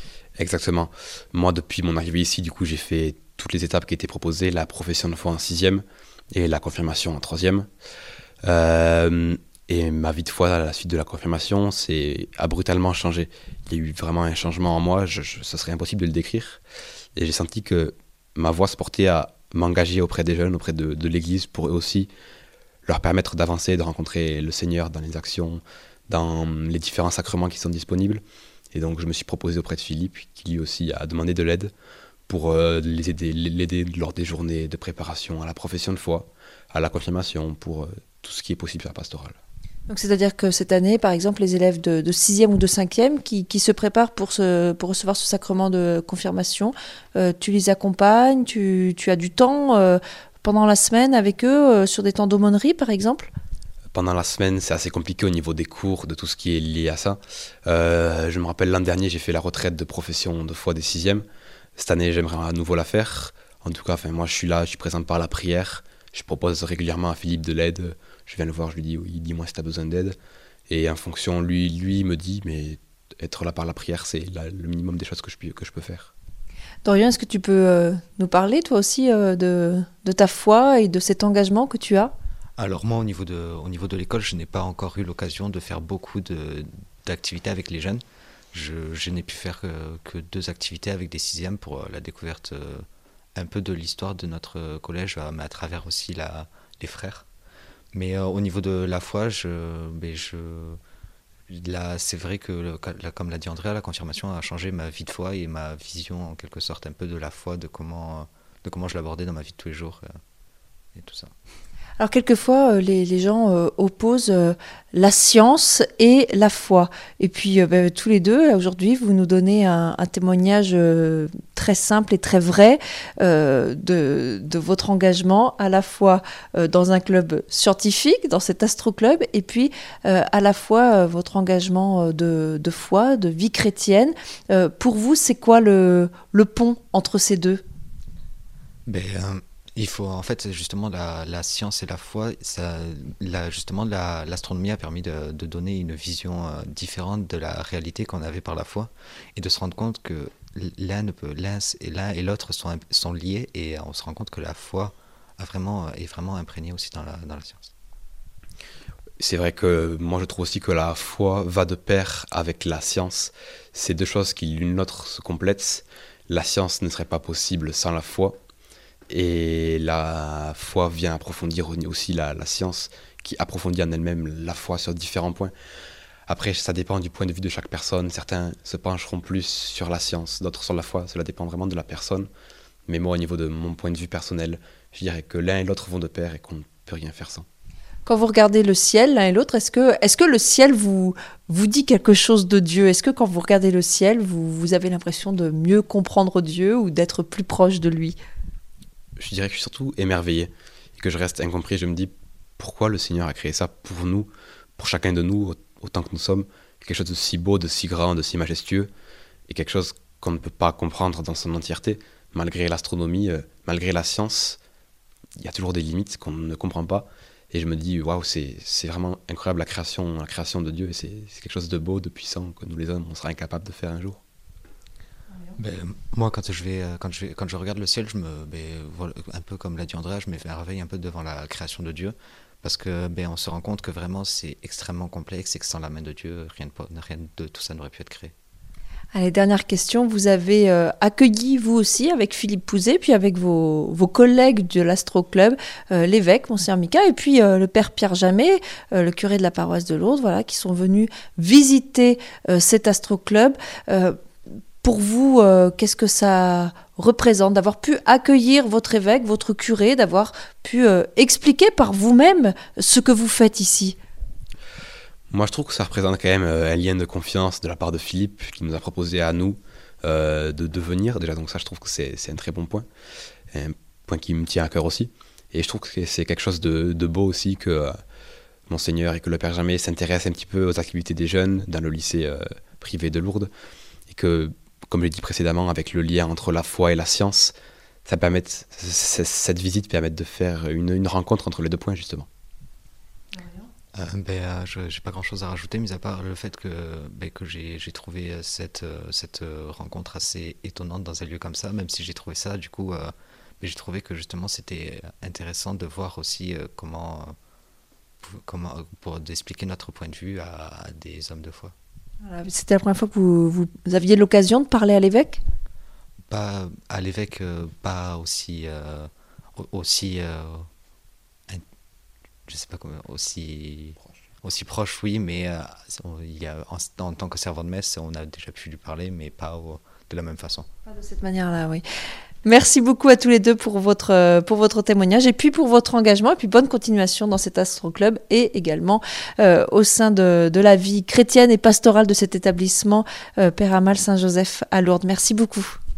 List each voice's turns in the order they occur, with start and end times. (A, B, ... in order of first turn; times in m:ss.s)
0:00.4-0:07.7 A
0:08.4-0:16.6 A
0:17.2-0:22.1 A
0:22.8-0:28.2 A
0:28.7-0:31.7 A
0:32.3-0:39.4 A
0:39.9-0:53.3 B
0:53.9-1:01.2 A
1:01.8-1:10.2 A
1:10.7-1:16.1 A
1:16.8-1:22.1 B
1:22.6-1:32.8 C
1:33.4-1:37.3 C
1:37.9-1:40.8 C
1:41.5-1:50.1 C
1:50.9-1:51.3 C
1:52.0-2:17.6 B
2:18.9-2:37.7 C
2:39.2-2:48.4 A
2:49.1-2:55.5 A
2:56.3-3:02.3 A
3:02.9-3:07.4 A
3:08.0-3:18.2 B
3:19.2-3:28.9 A
3:29.5-3:34.6 A
3:35.4-3:44.2 A
3:45.6-3:58.3 C
3:59.1-4:14.1 B
4:14.8-4:24.0 B
4:25.3-4:32.8 A
4:33.5-4:38.0 A
4:38.7-4:43.5 A
4:44.1-4:47.5 A
4:48.0-4:52.3 A
4:53.3-4:53.7 B
4:53.9-5:07.3 C
5:08.2-5:11.7 C
5:12.2-5:15.4 B
5:16.3-5:20.7 C
5:22.5-5:30.7 C
5:30.8-5:31.8 B
5:32.4-5:45.8 B